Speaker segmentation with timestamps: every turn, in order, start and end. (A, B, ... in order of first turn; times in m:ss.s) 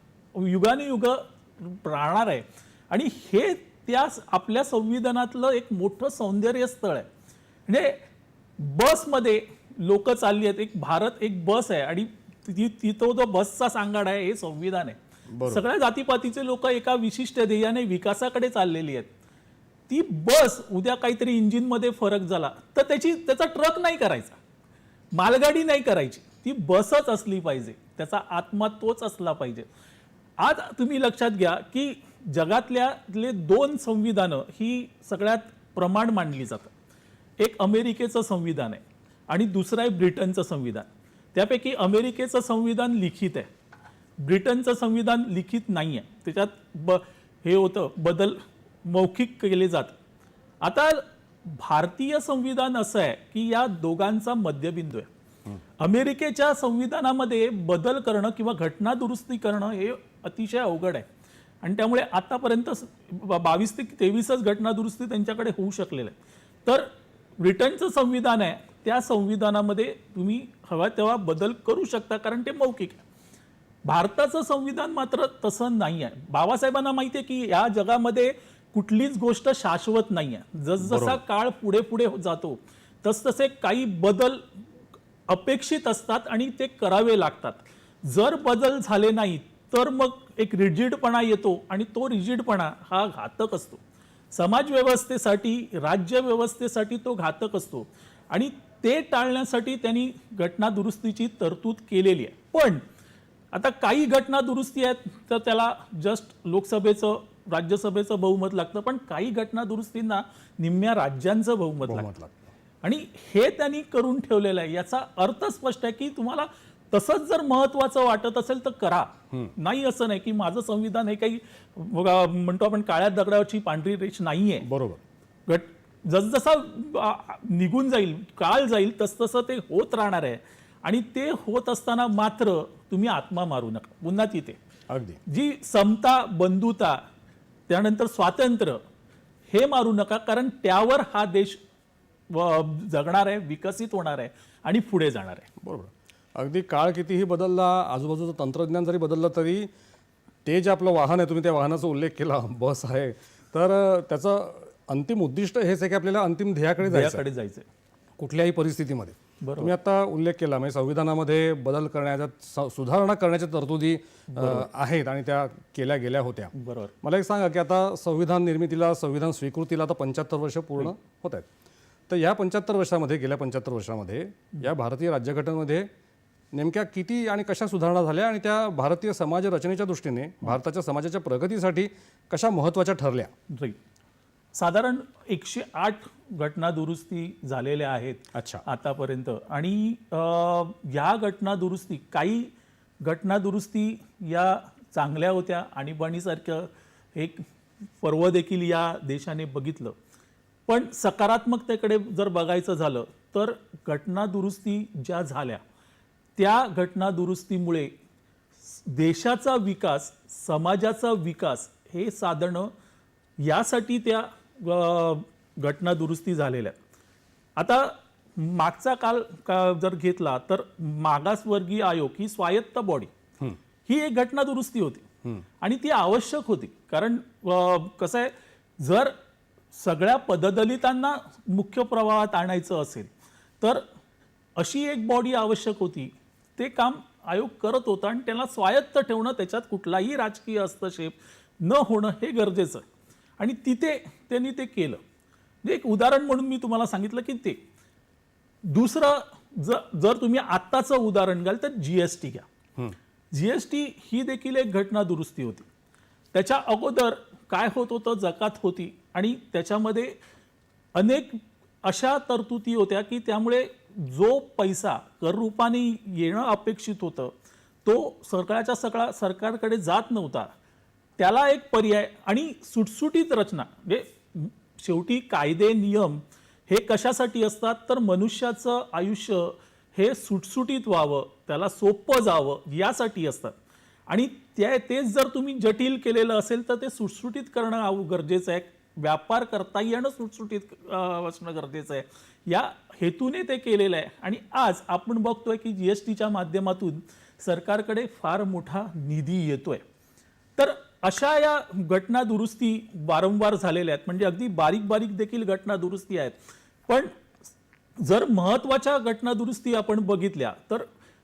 0:00.3-0:07.1 A
0:07.7-0:08.0 A
0:08.6-0:19.1 A
0:15.3-0:15.6 B
0:19.9-0:24.4 A
0:25.1-0:29.7 A
0:30.4-0:36.7 A
0:37.4-0:43.5 A
0:44.2-0:50.0 A
0:50.6-0:55.1 A
0:55.8-1:01.1 A
1:01.6-1:13.0 A
1:13.9-1:24.4 A
1:20.8-1:21.2 B
1:25.3-1:33.8 A
1:34.3-1:42.8 A
1:43.5-1:52.1 A
1:51.8-1:52.5 B
1:52.8-2:04.7 A
2:04.6-2:05.0 B
2:05.5-2:14.6 A
2:14.9-2:15.2 B
2:15.3-2:17.0 A
2:17.7-2:18.8 A
2:19.5-2:21.6 A
2:22.3-2:25.5 A
2:25.6-2:29.7 B
2:30.4-2:37.2 B
2:36.8-2:37.7 A
2:38.2-2:51.5 B
2:39.4-2:39.7 A
2:44.3-2:44.7 A
2:46.6-2:46.9 A
2:52.1-2:55.9 B
2:56.5-3:03.3 B
3:03.5-3:03.8 A
3:04.5-3:12.5 A
3:08.3-3:08.6 B
3:13.0-3:17.4 A
3:18.0-3:20.0 A
3:20.7-3:25.6 A
3:26.4-3:27.9 A
3:28.7-3:32.7 A
3:33.4-3:36.8 A
3:37.6-3:43.1 A
3:43.9-3:45.1 A
3:45.6-3:49.2 A
3:49.7-3:53.1 A
3:54.6-4:02.8 A
4:03.4-4:05.0 A
4:05.6-4:07.6 A
4:08.6-4:12.5 A
4:13.3-4:15.7 A
4:16.3-4:20.2 A
4:21.0-4:27.3 A
4:27.8-4:30.5 A
4:31.2-4:43.5 A
4:44.1-4:59.8 A
5:00.6-5:07.2 A
5:08.0-5:10.9 A